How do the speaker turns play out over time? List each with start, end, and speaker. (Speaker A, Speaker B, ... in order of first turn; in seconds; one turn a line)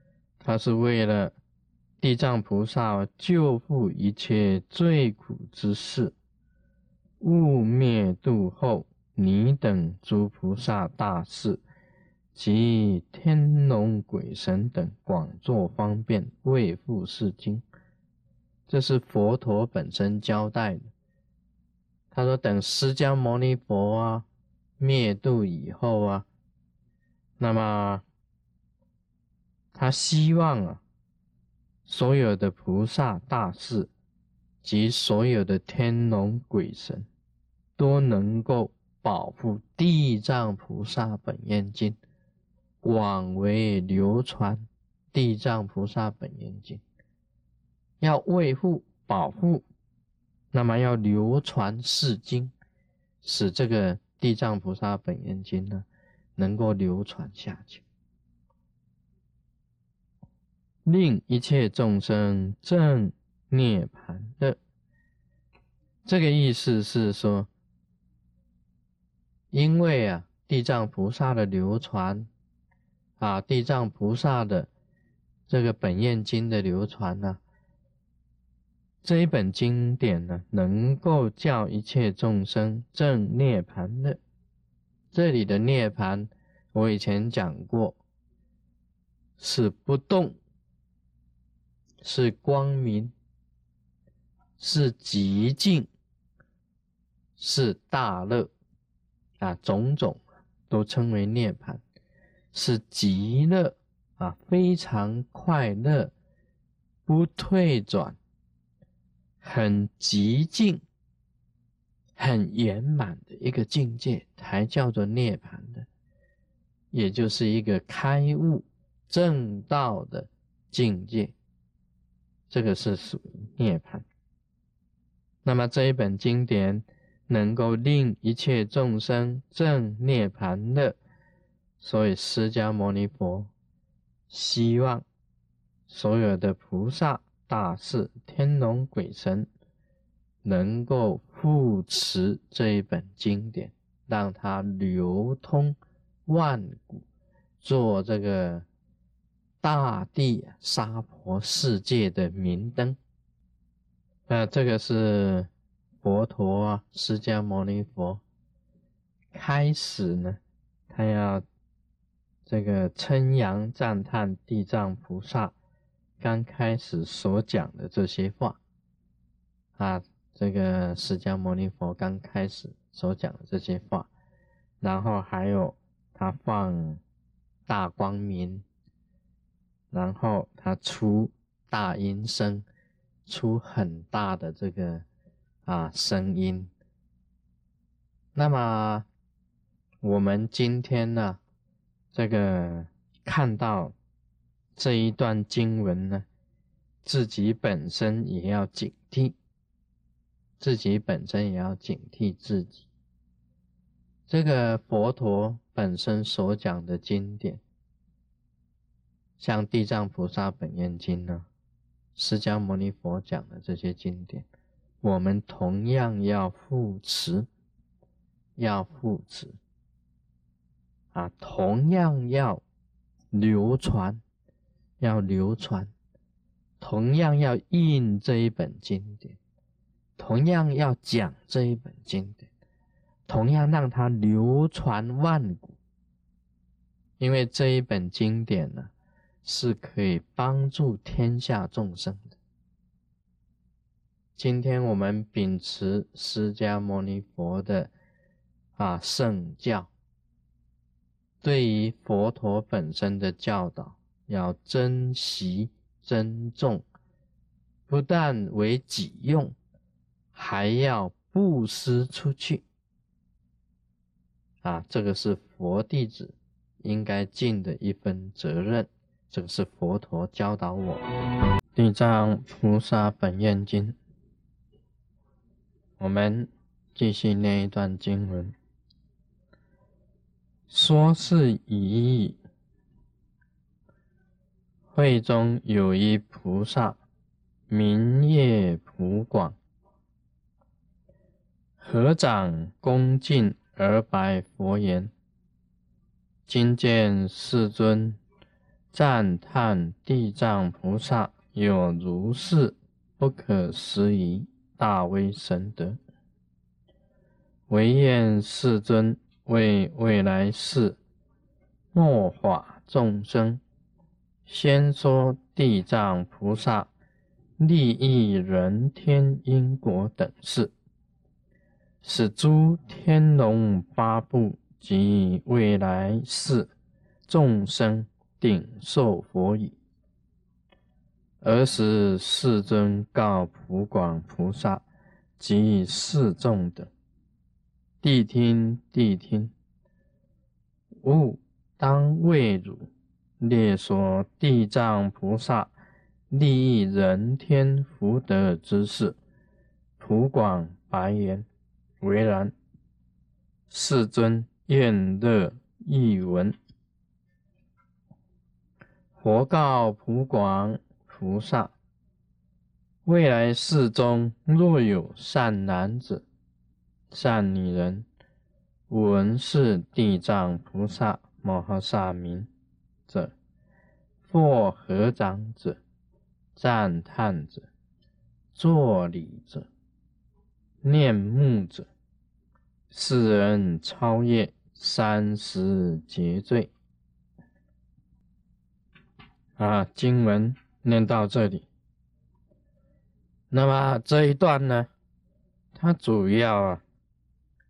Speaker A: 0.4-1.4
Speaker A: 2.0-6.2
Speaker A: 7.2-11.6
Speaker A: 12.3-17.6
Speaker A: 18.7-20.9
Speaker A: 22.1-24.3
Speaker A: 24.8-26.3
Speaker A: 27.4-28.0
Speaker A: 29.7-30.8
Speaker A: 31.9-33.9
Speaker A: 34.6-37.1
Speaker A: 37.8-42.0
Speaker A: 42.8-46.8
Speaker A: 48.0-49.6
Speaker A: 50.5-52.5
Speaker A: 53.2-55.9
Speaker A: 56.4-57.8
Speaker A: 60.9-64.6
Speaker A: 66.0-67.5
Speaker A: 69.5-72.3
Speaker A: 73.2-74.7
Speaker A: 75.5-77.4
Speaker A: 79.0-84.2
Speaker A: 85.1-88.0
Speaker A: 89.4-90.4
Speaker A: 92.0-93.1
Speaker A: 94.6-95.9
Speaker A: 97.4-98.5
Speaker A: 99.4-101.8
Speaker A: 102.5-106.1
Speaker A: 107.1-108.2
Speaker A: 109.4-110.8
Speaker A: 112.2-115.9
Speaker A: 116.9-121.3
Speaker A: 122.5-124.0
Speaker A: 125.4-131.0
Speaker A: 131.8-133.5
Speaker A: 134.3-135.1
Speaker A: 135.9-139.5
Speaker A: 140.4-147.1
Speaker A: 147.6-148.7
Speaker A: 149.6-153.0
Speaker A: 154.3-155.5
Speaker A: 156.0-158.2
Speaker A: 159.3-161.4
Speaker A: 162.5-165.6
Speaker A: 166.2-168.6
Speaker A: 169.8-174.1
Speaker A: 174.8-177.0
Speaker A: 177.7-178.7
Speaker A: 179.9-182.7
Speaker A: 183.3-185.1
Speaker A: 185.7-186.7
Speaker A: 188.3-189.1
Speaker A: 190.0-191.4
Speaker A: 192.1-193.9
Speaker A: 194.8-196.2
Speaker A: 197.0-199.4
Speaker A: 200.6-202.9
Speaker A: 204.3-207.6
Speaker A: 209.4-211.5
Speaker A: 212.2-214.5
Speaker A: 215.0-217.5
Speaker A: 218.6-219.6
Speaker A: 221.1-222.6
Speaker A: 223.3-224.2
Speaker A: 225.0-225.9
Speaker A: 226.8-229.4
Speaker A: 230.2-232.5
Speaker A: 233.3-235.8
Speaker A: 237.2-238.9
Speaker A: 239.4-242.4
Speaker A: 244.4-247.9
Speaker A: 248.8-249.9
Speaker A: 251.4-256.8
Speaker A: 257.9-259.6
Speaker A: 260.3-262.6
Speaker A: 264.6-271.1
Speaker A: 271.8-274.0
Speaker A: 276.0-278.6
Speaker A: 280.7-282.4
Speaker A: 284.9-287.0
Speaker A: 287.7-289.6
Speaker A: 291.8-295.1
Speaker A: 296.5-298.2
Speaker A: 298.9-306.0
Speaker A: 307.7-311.0
Speaker A: 311.9-313.6
Speaker A: 314.5-316.9
Speaker A: 317.6-320.7
Speaker A: 322.0-326.7
Speaker A: 327.3-329.8
Speaker A: 331.4-334.8
Speaker A: 335.4-336.9
Speaker A: 338.0-339.5
Speaker A: 341.0-342.9
Speaker A: 343.4-345.7
Speaker A: 346.3-349.2
Speaker A: 350.0-351.5
Speaker A: 352.0-352.5
Speaker A: 353.7-356.6
Speaker A: 359.2-361.7
Speaker A: 363.1-366.2
Speaker A: 367.1-368.1
Speaker A: 368.9-372.5
Speaker A: 373.1-373.3
Speaker A: 374.2-375.8
Speaker A: 376.6-377.7
Speaker A: 378.6-379.7
Speaker A: 380.8-381.9
Speaker A: 382.9-386.7
Speaker A: 389.6-391.7
Speaker A: 393.5-394.9
Speaker A: 395.8-396.8